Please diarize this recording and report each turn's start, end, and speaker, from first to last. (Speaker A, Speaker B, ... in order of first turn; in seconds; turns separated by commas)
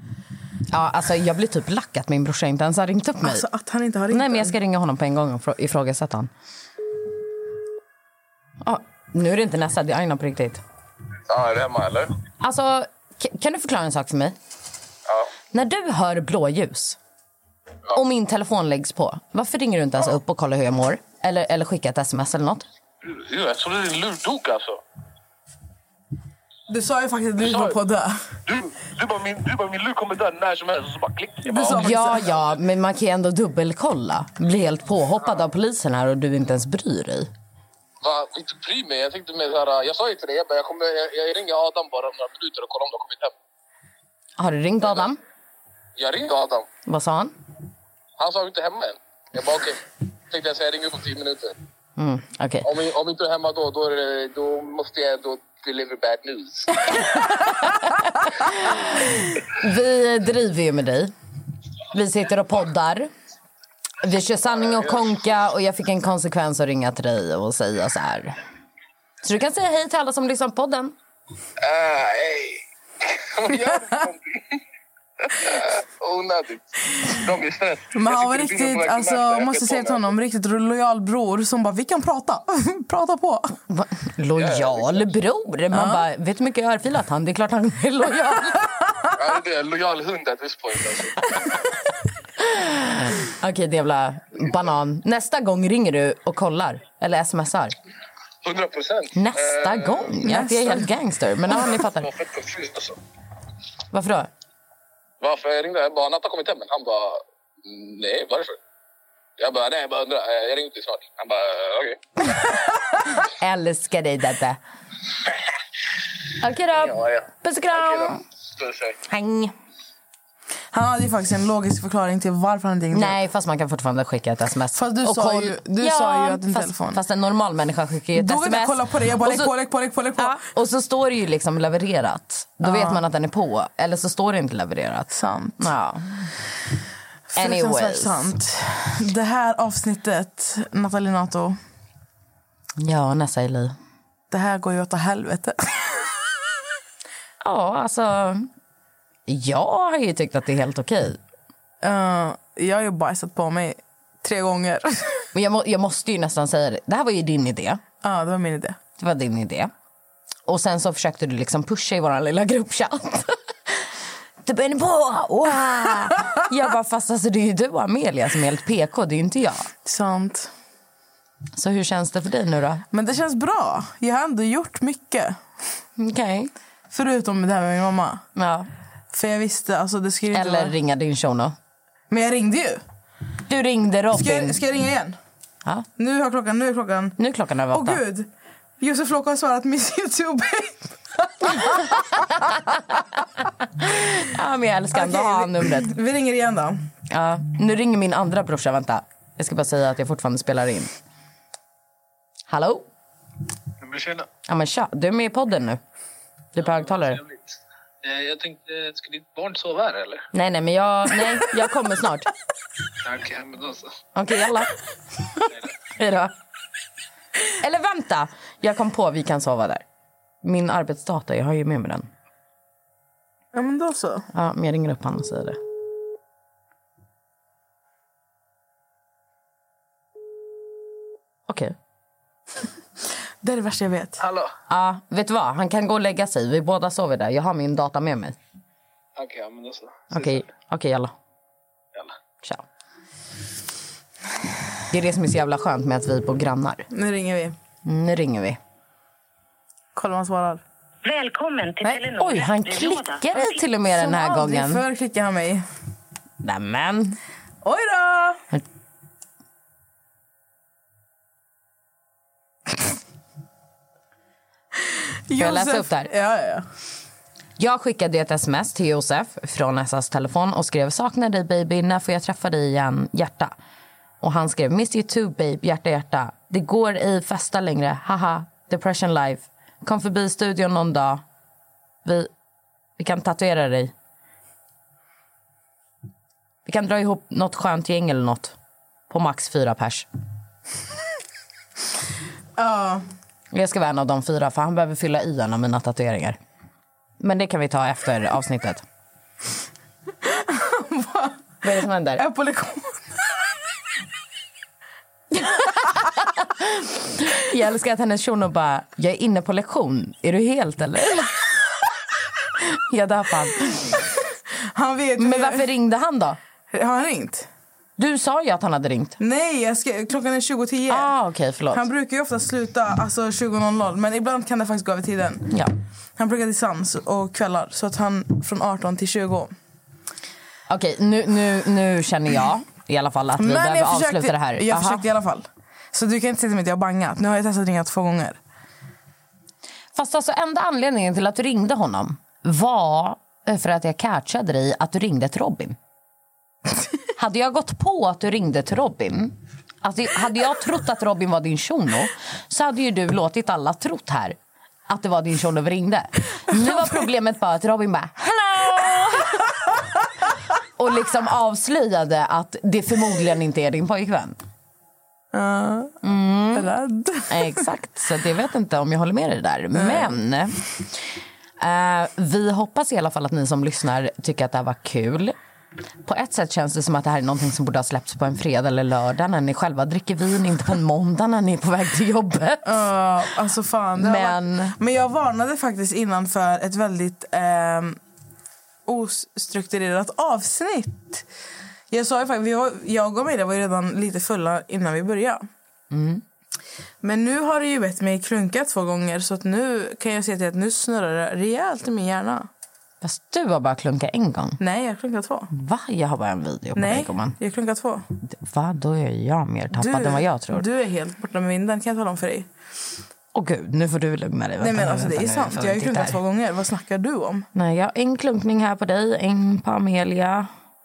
Speaker A: 0.7-3.4, Speaker B: 3.2-4.5, Speaker A: 4.1-6.3, Speaker A: 8.6-10.6, Speaker C: 11.3-12.1, Speaker A: 12.4-14.3, Speaker A: 15.5-17.0, Speaker A: 17.9-22.6, Speaker C: 23.0-24.8, Speaker B: 26.7-28.2, Speaker C: 27.4-27.7, Speaker C: 28.4-31.9, Speaker B: 31.4-32.3, Speaker A: 31.6-37.3, Speaker C: 38.0-43.3, Speaker A: 44.4-45.2, Speaker C: 46.0-46.7, Speaker A: 46.9-47.3, Speaker C: 48.2-51.5, Speaker A: 52.0-52.7, Speaker C: 52.6-57.0, Speaker A: 57.1-61.1, Speaker A: 61.9-63.1, Speaker A: 64.0-68.4, Speaker C: 64.6-65.1, Speaker A: 69.2-70.9, Speaker C: 71.6-72.6, Speaker C: 73.3-74.4, Speaker C: 75.3-80.1, Speaker B: 77.9-83.5, Speaker A: 83.7-88.6, Speaker C: 84.3-85.0, Speaker B: 85.7-86.0, Speaker C: 89.1-91.5, Speaker A: 92.4-97.7, Speaker C: 98.4-100.2, Speaker A: 99.1-102.1, Speaker B: 100.2-100.9, Speaker C: 101.5-103.0, Speaker A: 103.9-104.3, Speaker C: 105.2-108.6, Speaker C: 109.4-112.0, Speaker A: 113.2-114.6, Speaker A: 116.4-118.2, Speaker C: 116.8-119.0, Speaker A: 119.0-119.5, Speaker B: 120.7-123.2, Speaker A: 122.9-129.5, Speaker B: 124.7-127.0, Speaker B: 128.1-130.4, Speaker A: 130.2-136.2, Speaker B: 132.6-133.0, Speaker B: 135.1-135.7, Speaker B: 137.3-141.6, Speaker A: 137.3-138.3, Speaker A: 142.8-143.8, Speaker B: 144.3-146.1, Speaker A: 147.4-148.5, Speaker A: 149.3-151.2, Speaker B: 151.8-155.2, Speaker A: 155.3-157.8, Speaker B: 158.0-158.8, Speaker A: 159.0-159.7, Speaker A: 160.4-163.7, Speaker A: 164.4-169.7, Speaker B: 169.8-170.5, Speaker A: 171.6-172.8, Speaker B: 172.9-175.4, Speaker A: 176.0-176.5, Speaker B: 176.9-178.2, Speaker A: 178.3-178.7, Speaker B: 179.1-180.7, Speaker A: 180.3-181.6, Speaker B: 182.1-182.8, Speaker A: 183.5-184.6, Speaker B: 184.1-185.2, Speaker B: 186.0-187.2, Speaker A: 187.2-188.0, Speaker B: 187.7-192.2, Speaker A: 192.2-192.7, Speaker A: 193.5-195.9, Speaker B: 194.9-196.8, Speaker A: 197.1-200.9, Speaker A: 202.5-202.8, Speaker D: 203.8-204.3, Speaker A: 204.5-205.8, Speaker A: 206.5-207.2, Speaker D: 208.0-210.2, Speaker A: 210.3-212.3, Speaker D: 213.0-213.9, Speaker A: 214.1-214.7, Speaker A: 216.0-216.3, Speaker A: 217.6-219.8, Speaker A: 220.4-222.1, Speaker B: 223.5-224.3, Speaker A: 224.3-225.6, Speaker A: 231.5-231.7, Speaker B: 233.4-234.2, Speaker A: 234.7-238.3, Speaker D: 239.2-240.4, Speaker A: 240.1-241.1, Speaker A: 244.9-246.8, Speaker B: 246.9-247.6, Speaker A: 247.8-248.6, Speaker B: 249.9-250.6, Speaker E: 251.0-253.6, Speaker A: 251.8-254.8, Speaker B: 253.9-255.6, Speaker A: 256.4-257.2, Speaker B: 257.6-258.4, Speaker B: 265.3-266.6, Speaker A: 265.4-266.1, Speaker A: 267.6-273.5, Speaker A: 274.2-281.2, Speaker A: 282.0-282.3, Speaker A: 283.0-283.9, Speaker A: 286.6-288.5, Speaker A: 289.1-290.1, Speaker B: 292.6-293.0, Speaker A: 293.5-296.4, Speaker A: 297.2-298.8, Speaker B: 300.2-301.4, Speaker A: 301.6-302.2, Speaker B: 302.2-303.3, Speaker A: 305.4-311.3, Speaker A: 312.6-314.0, Speaker B: 314.5-315.7, Speaker A: 315.2-316.4, Speaker B: 316.7-317.5, Speaker A: 318.0-319.2, Speaker B: 319.2-321.1, Speaker A: 320.9-321.8, Speaker B: 321.7-325.5, Speaker B: 326.2-329.5, Speaker A: 330.7-335.0, Speaker B: 333.4-338.4, Speaker A: 339.9-345.8, Speaker A: 347.1-354.4, Speaker A: 354.9-359.5, Speaker B: 356.5-356.9, Speaker A: 360.8-364.4, Speaker B: 365.3-366.0, Speaker A: 366.0-366.7, Speaker B: 366.5-367.6, Speaker A: 367.3-370.6, Speaker B: 369.7-370.1, Speaker A: 371.6-375.4, Speaker A: 376.0-382.8, Speaker B: 382.6-388.0, Speaker A: 384.0-384.7, Speaker B: 388.9-391.2, Speaker B: 391.9-395.4, Speaker A: 395.9-396.2, Speaker B: 397.0-402.5, Speaker A: 403.0-404.6, Speaker B: 404.6-405.5, Speaker A: 405.5-407.4, Speaker B: 406.7-408.1, Speaker A: 408.2-410.6, Speaker B: 409.7-412.5, Speaker A: 413.3-416.2, Speaker B: 414.6-417.5, Speaker A: 417.5-420.5